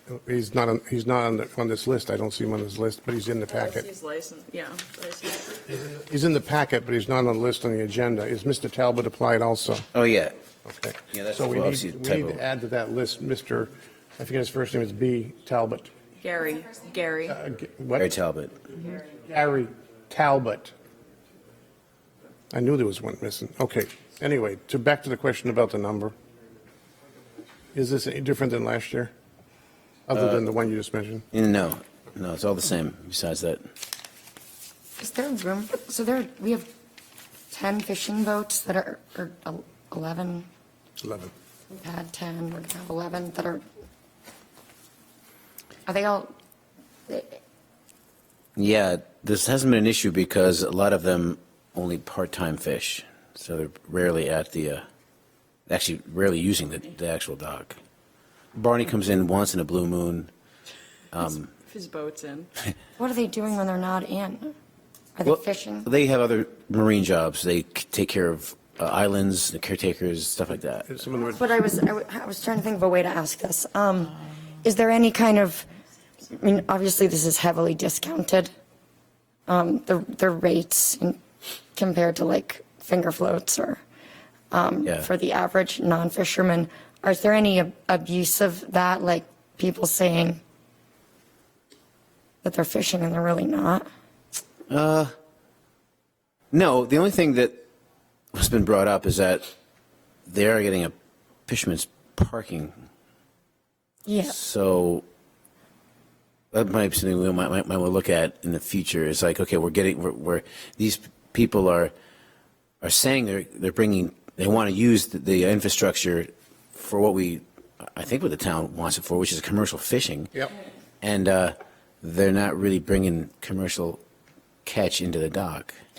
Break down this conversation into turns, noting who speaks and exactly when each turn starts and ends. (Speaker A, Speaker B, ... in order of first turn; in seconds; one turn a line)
Speaker A: 0.1-3.9
Speaker B: 3.5-5.6
Speaker A: 5.7-9.9
Speaker C: 9.9-10.4
Speaker A: 10.7-15.9
Speaker C: 11.1-12.4
Speaker B: 16.2-17.4
Speaker A: 17.3-18.1
Speaker C: 18.0-18.6
Speaker A: 19.1-20.8
Speaker A: 22.5-26.1
Speaker A: 27.7-29.1
Speaker A: 30.1-31.3
Speaker C: 31.3-33.6
Speaker D: 35.0-36.7
Speaker D: 37.5-40.5
Speaker A: 41.0-41.3
Speaker D: 41.7-43.6
Speaker D: 45.9-46.3
Speaker D: 47.1-47.4
Speaker C: 48.6-54.9
Speaker C: 55.7-57.8
Speaker C: 58.5-60.3
Speaker C: 61.1-61.5
Speaker B: 61.6-62.5
Speaker D: 63.0-64.5
Speaker D: 65.2-65.9
Speaker C: 65.3-70.9
Speaker A: 70.9-71.5
Speaker D: 71.3-75.7
Speaker D: 76.3-78.5
Speaker D: 79.5-81.2
Speaker D: 81.8-83.8
Speaker D: 84.5-90.4
Speaker D: 92.4-93.9
Speaker C: 94.7-95.1
Speaker C: 96.5-97.6
Speaker C: 98.3-99.5
Speaker C: 100.3-100.9
Speaker C: 101.5-102.7
Speaker D: 104.1-104.4
Speaker C: 104.3-105.0
Speaker C: 106.5-111.9
Speaker C: 112.8-120.3
Speaker C: 121.0-124.0
Speaker C: 124.7-125.7